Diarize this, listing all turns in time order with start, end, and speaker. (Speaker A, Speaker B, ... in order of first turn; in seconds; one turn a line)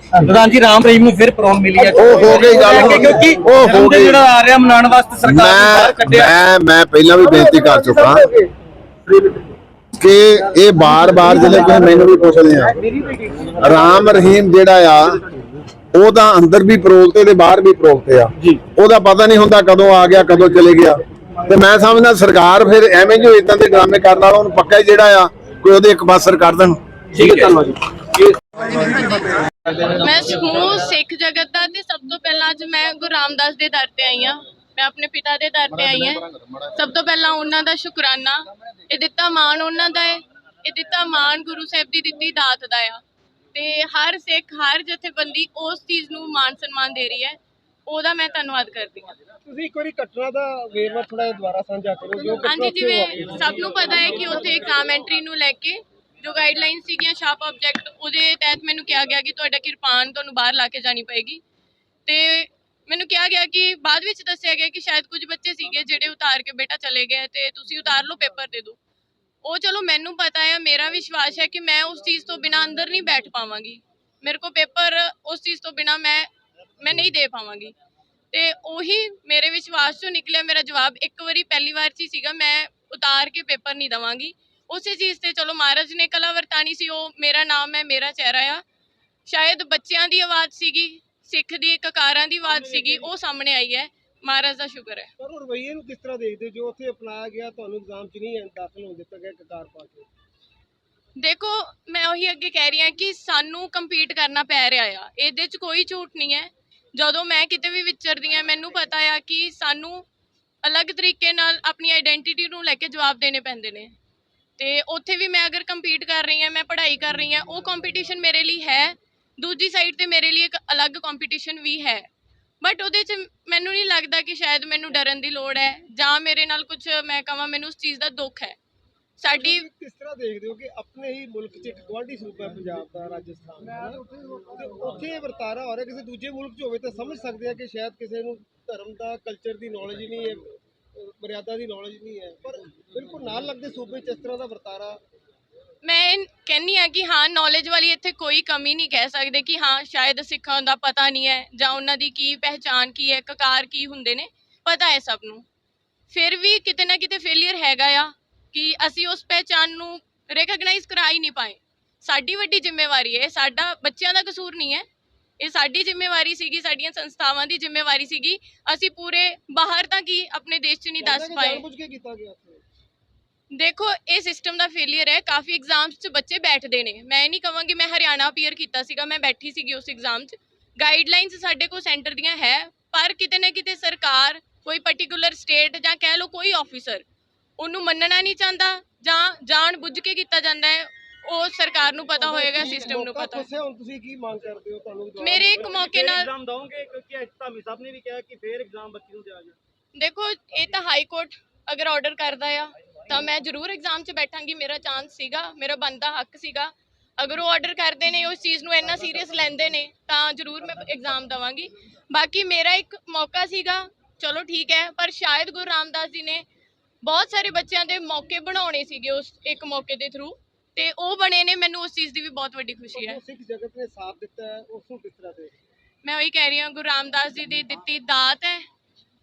Speaker A: 0.2-6.3
Speaker B: 1.8-3.4
Speaker C: 1.9-4.2
Speaker C: 5.2-8.2
Speaker B: 7.2-8.5
Speaker C: 10.0-12.7
Speaker C: 13.6-15.2
Speaker C: 15.9-26.8
Speaker A: 27.2-27.8
Speaker D: 29.8-36.2
Speaker C: 35.7-36.7
Speaker D: 36.8-43.0
Speaker D: 43.5-49.1
Speaker B: 49.5-53.3
Speaker D: 52.4-61.4
Speaker D: 62.0-68.8
Speaker D: 69.4-77.7
Speaker D: 78.3-88.6
Speaker D: 89.3-95.1
Speaker B: 92.5-93.0
Speaker B: 95.2-100.1
Speaker D: 101.2-110.0
Speaker D: 110.6-113.9
Speaker D: 114.6-122.1
Speaker D: 122.6-128.6
Speaker D: 129.2-129.6
Speaker B: 129.4-145.0
Speaker D: 145.8-155.4
Speaker D: 156.1-164.8
Speaker D: 165.4-171.6
Speaker B: 171.0-172.6
Speaker D: 173.5-187.0
Speaker D: 187.6-193.5
Speaker B: 192.2-197.3
Speaker D: 195.2-196.3
Speaker E: 196.0-198.3
Speaker E: 199.1-199.4
Speaker D: 199.9-216.4
Speaker D: 217.0-223.2
Speaker B: 222.9-225.6
Speaker D: 226.0-228.7